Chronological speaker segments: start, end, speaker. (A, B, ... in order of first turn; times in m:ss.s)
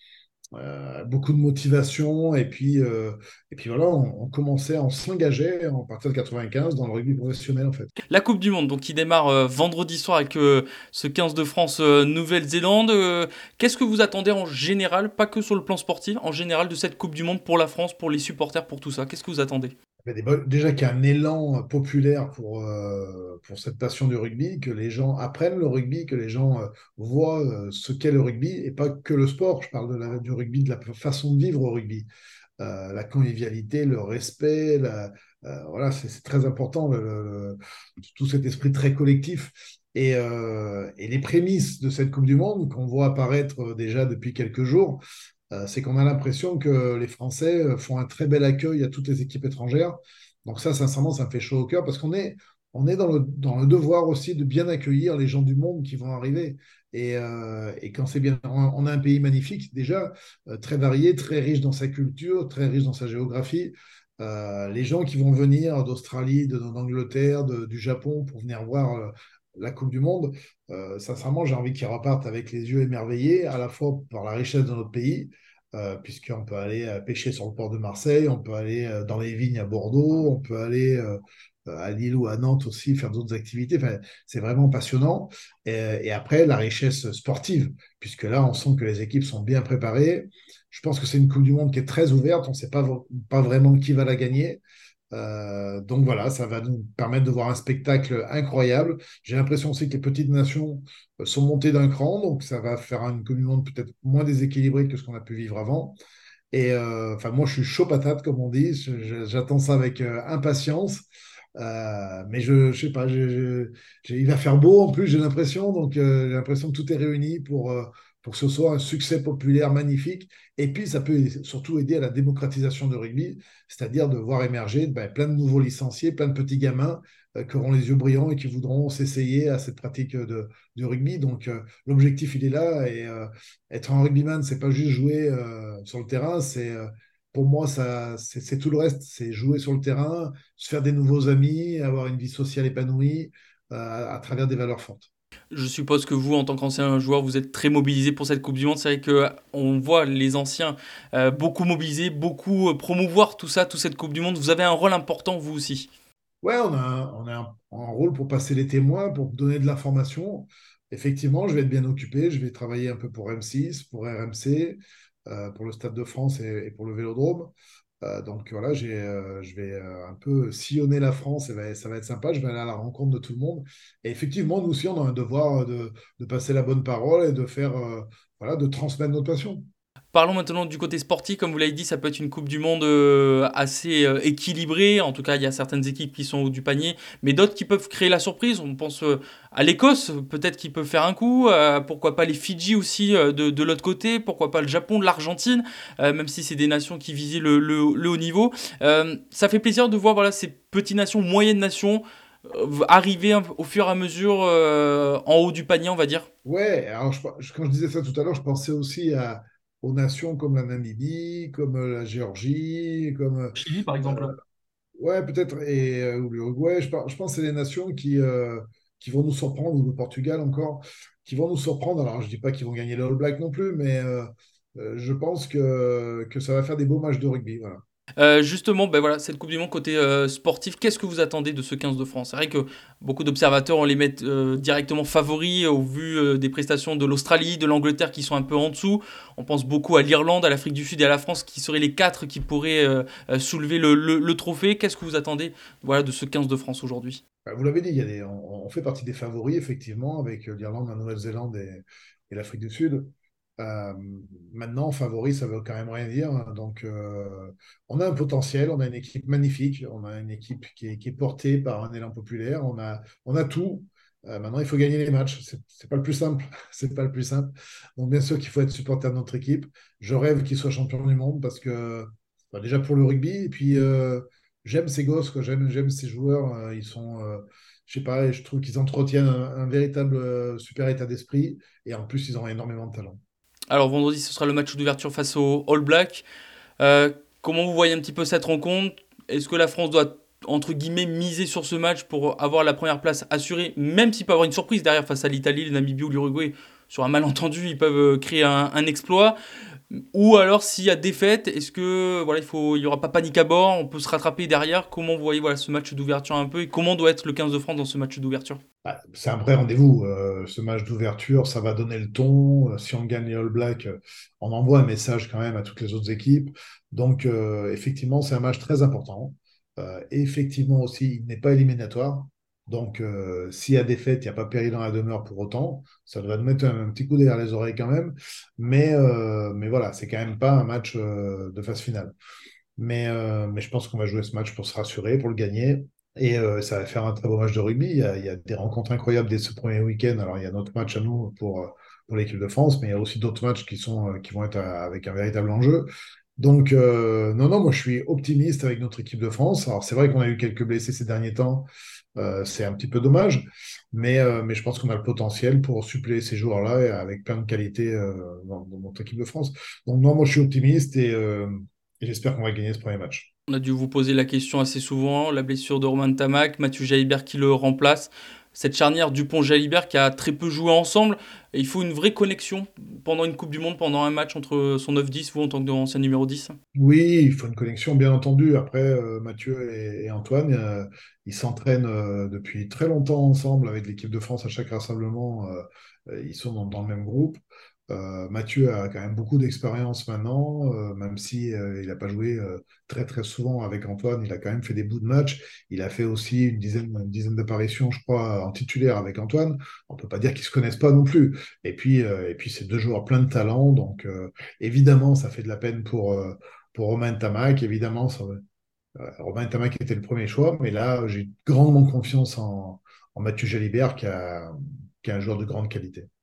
0:00.5-0:07.9 A
0:08.1-0:19.8 B
0:20.0-0:32.1 A
0:32.6-1:34.6 A
1:35.1-1:46.0 A
1:46.5-1:51.0 A
1:51.6-2:25.1 A
2:25.5-2:35.9 B
2:36.4-2:59.6 A
3:00.1-3:26.3 B
3:26.4-3:34.3 A
3:33.5-3:34.3 B
3:35.0-3:47.8 A
3:48.2-4:07.2 B
4:07.4-4:43.2 A
4:43.7-4:46.2 B
4:46.8-4:59.4 B
4:59.9-5:08.6 B
5:08.8-5:32.1 A
5:32.8-6:03.3 A
6:03.5-6:16.5 B
6:16.7-6:48.4 A
6:49.0-6:56.1 A